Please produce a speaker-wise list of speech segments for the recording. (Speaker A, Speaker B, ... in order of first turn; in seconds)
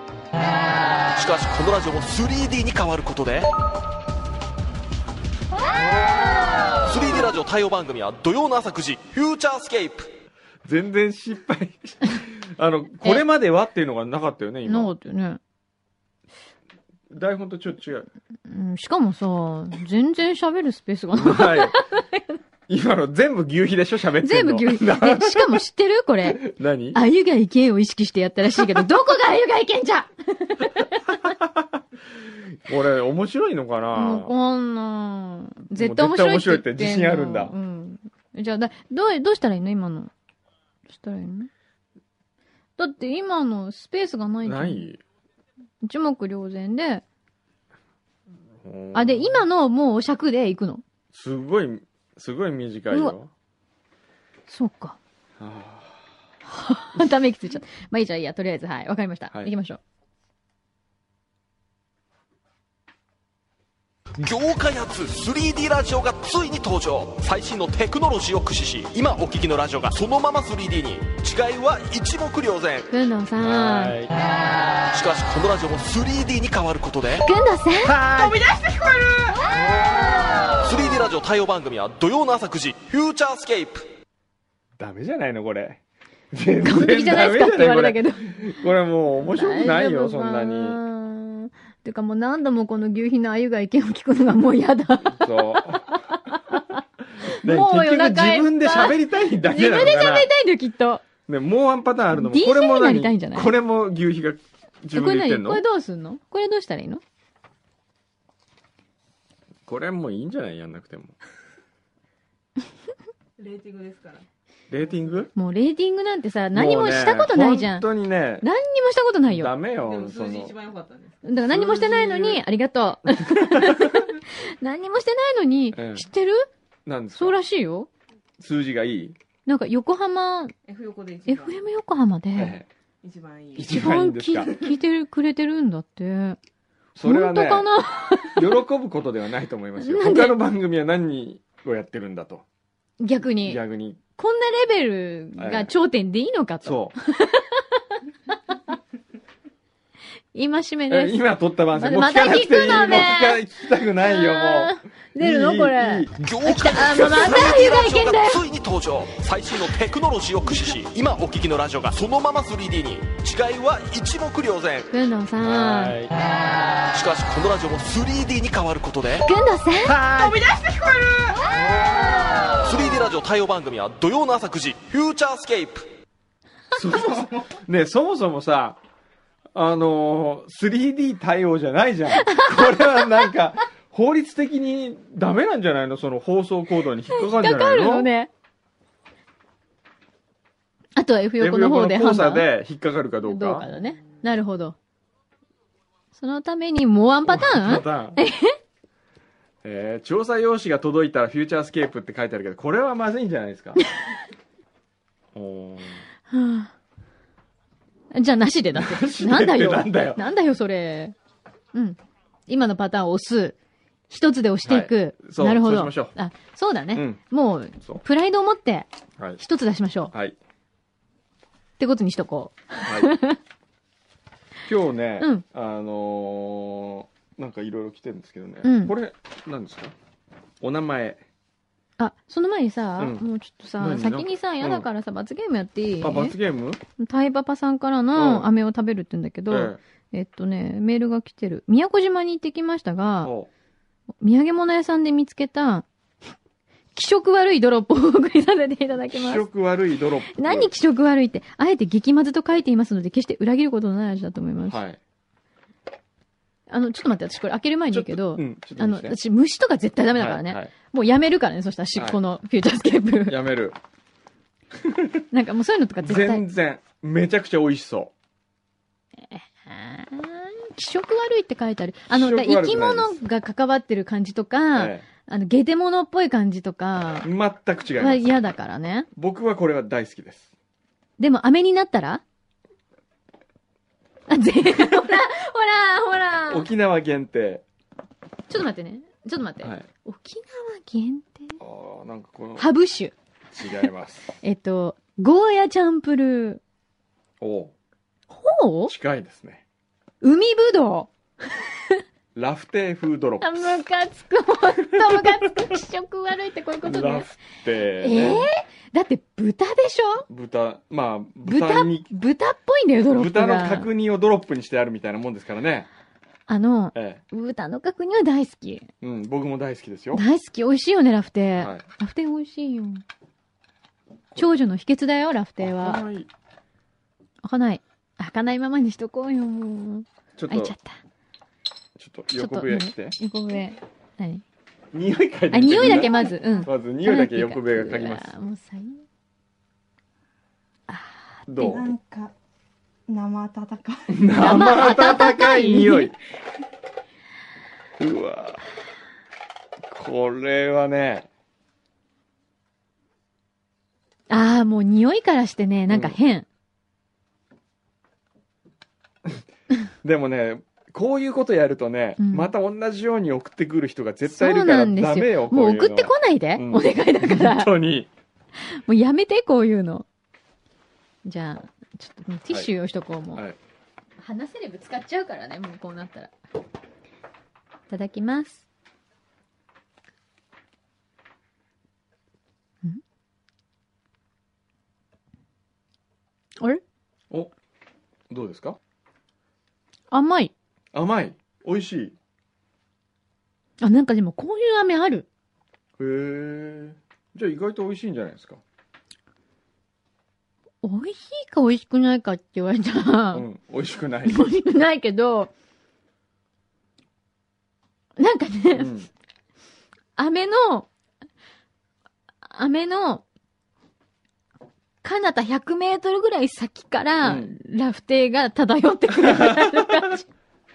Speaker A: 1.1-3.5, 6.8-10.1, 64.2-72.9, 74.9-77.3, 80.6-83.8, 156.2-164.9, 166.9-169.3, 172.6-175.9
Speaker B: 10.7-14.9, 17.1-18.1, 21.1-21.8, 22.7-25.6, 26.2-27.0, 31.1-31.8, 32.7-34.3, 35.8-37.5, 44.4-45.0, 48.6-49.5, 51.1-53.3, 55.4-56.1, 73.4-74.2, 77.8-78.6, 84.8-85.8, 86.3-90.8, 95.0-95.8, 97.3-100.3, 101.3-105.7, 109.7-111.2, 114.7-115.3, 116.5-118.5, 119.3-120.5, 121.6-121.9, 123.3-123.9, 125.7-126.1, 126.9-127.4, 128.4-129.2, 132.4-132.7, 133.6-134.5, 136.9-137.7, 138.3-142.4, 143.4-144.0, 145.4-145.7, 146.6-146.9, 150.9-156.1, 165.4-166.2, 169.8-170.6, 176.7-178.8, 179.5-188.1, 191.4-193.7, 197.3-198.2, 199.6-203.8, 205.3-206.1, 208.7-210.2, 214.7-216.1, 216.9-217.2, 220.1-220.4, 222.8-223.2, 224.7-229.9, 230.6-231.2, 233.0-233.2, 233.8-234.9, 236.0-236.8, 238.1-238.5, 239.5-239.8, 243.2-243.5, 249.1-250.7, 254.6-255.0, 257.9-259.2, 260.1-260.7, 263.3-263.8, 264.8-265.2, 266.0-268.1, 272.1-273.2, 274.8-275.1, 277.2-278.3, 279.1-280.5, 286.5-287.6, 289.6-289.9, 291.6-292.7, 293.5-294.4, 297.4-297.7, 298.9-299.6, 302.4-303.8, 304.9-305.7, 306.8-308.5, 310.3-312.1, 313.1-315.9, 316.9-317.2, 319.0-320.2, 321.6-321.9, 325.6-326.3, 330.4-330.8, 332.0-333.2, 334.9-336.1, 336.6-338.3, 341.5-341.9, 344.1-346.1, 348.0-348.7, 349.9-351.3, 355.9-356.2, 360.0-368.1, 388.3-388.8, 390.9-392.1, 396.0-398.6, 403.3-404.5, 408.8-409.1, 417.2-417.5, 419.2-419.9
Speaker C: 14.7-15.4, 18.5-22.2, 24.2-31.0, 33.9-40.1, 40.9-41.5, 42.8-44.9, 45.8-47.0, 48.9-50.8, 54.5-55.0, 56.5-59.8, 72.9-74.0, 77.2-78.0, 86.6-88.6, 89.2-96.8, 97.4-101.0, 102.2-103.5, 104.9-107.0, 115.3-117.9, 118.4-119.5, 121.2-126.5, 127.2-127.9, 129.5-130.5, 131.2-132.6, 133.6-136.4, 137.0-138.5, 139.8-140.4, 143.0-143.6, 144.2-147.6, 150.3-151.2, 151.7-153.4, 154.1-158.4, 164.9-166.0, 169.2-170.0, 182.2-183.1, 187.1-188.3, 191.0-192.5, 193.3-194.8, 196.2-198.6, 206.3-206.7, 208.1-211.1, 211.7-213.6, 214.1-220.1, 221.8-223.4, 228.6-228.9, 232.0-236.4, 237.0-243.3, 244.2-245.9, 246.9-249.5, 250.3-254.8, 256.7-263.4, 265.3-266.4, 269.3-277.3, 278.0-279.1, 281.2-282.2, 284.3-286.7, 288.5-291.6, 292.6-293.1, 294.4-296.6, 298.3-298.9, 300.2-301.1, 303.4-307.3, 308.0-310.3, 311.4-313.9, 316.5-318.9, 320.1-323.0, 324.4-326.0, 327.4-331.0, 332.3-334.4, 335.5-339.0, 340.9-341.4, 344.4-346.1, 354.3-356.5, 362.2-362.5, 364.3-367.7, 368.6-370.1, 371.2-373.4, 374.2-376.3, 377.9-378.6, 390.1-390.5, 393.8-395.3, 400.8-403.5, 404.3-405.5, 408.2-408.9, 410.2-410.9, 412.5-413.2, 415.0-420.3
Speaker D: 78.5-79.4, 113.4-114.3, 114.8-115.2, 119.8-122.4, 130.7-131.7, 133.0-133.9, 170.2-171.4, 193.8-194.0, 341.6-342.3, 343.1-344.1